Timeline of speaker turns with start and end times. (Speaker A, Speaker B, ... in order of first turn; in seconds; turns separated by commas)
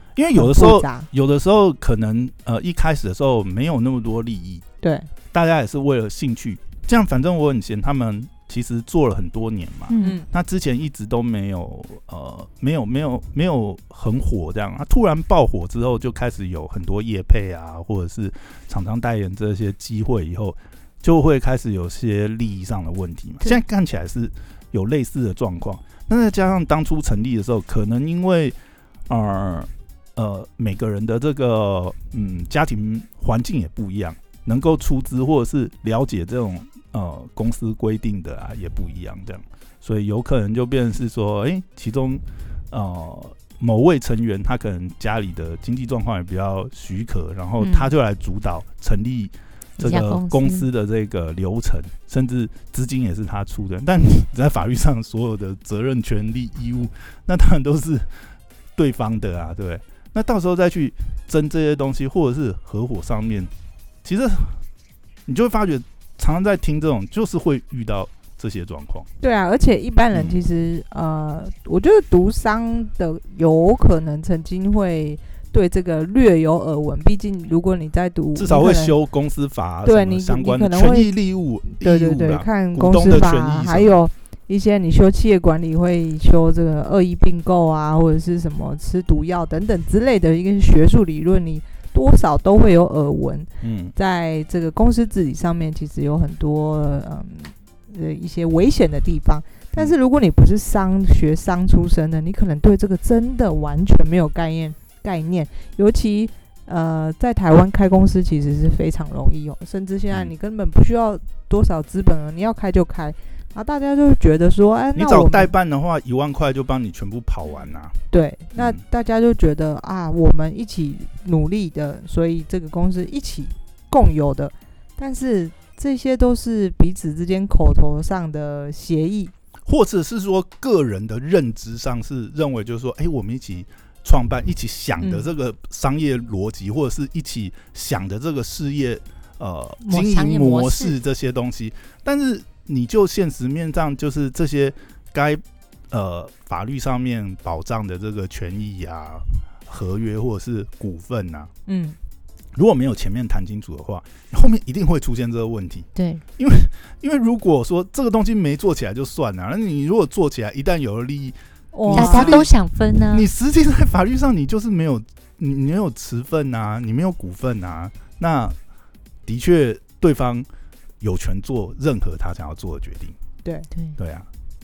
Speaker A: 0.1-4.6, Speaker B: 0.3-1.1, Speaker B: 4.8-5.1, Speaker A: 5.3-28.6, Speaker C: 9.9-10.2, Speaker B: 10.0-10.2, Speaker A: 29.1-63.5, Speaker C: 47.6-47.9, Speaker C: 49.8-50.6, Speaker A: 64.0-64.6, Speaker A: 65.2-69.1, Speaker B: 69.2-78.9, Speaker A: 70.1-70.4, Speaker A: 78.3-84.0, Speaker B: 79.8-81.1, Speaker B: 81.8-115.5, Speaker A: 93.6-93.9, Speaker A: 114.9-118.0, Speaker B: 118.1-129.3, Speaker A: 118.5-118.8, Speaker A: 129.7-151.5, Speaker B: 135.0-135.3, Speaker C: 139.8-140.9, Speaker B: 151.7-152.0, Speaker A: 152.5-162.5, Speaker C: 155.9-156.2, Speaker B: 161.7-162.5, Speaker C: 161.9-163.3, Speaker A: 163.0-168.6, Speaker A: 169.2-170.5, Speaker A: 171.0-173.2, Speaker A: 174.0-174.3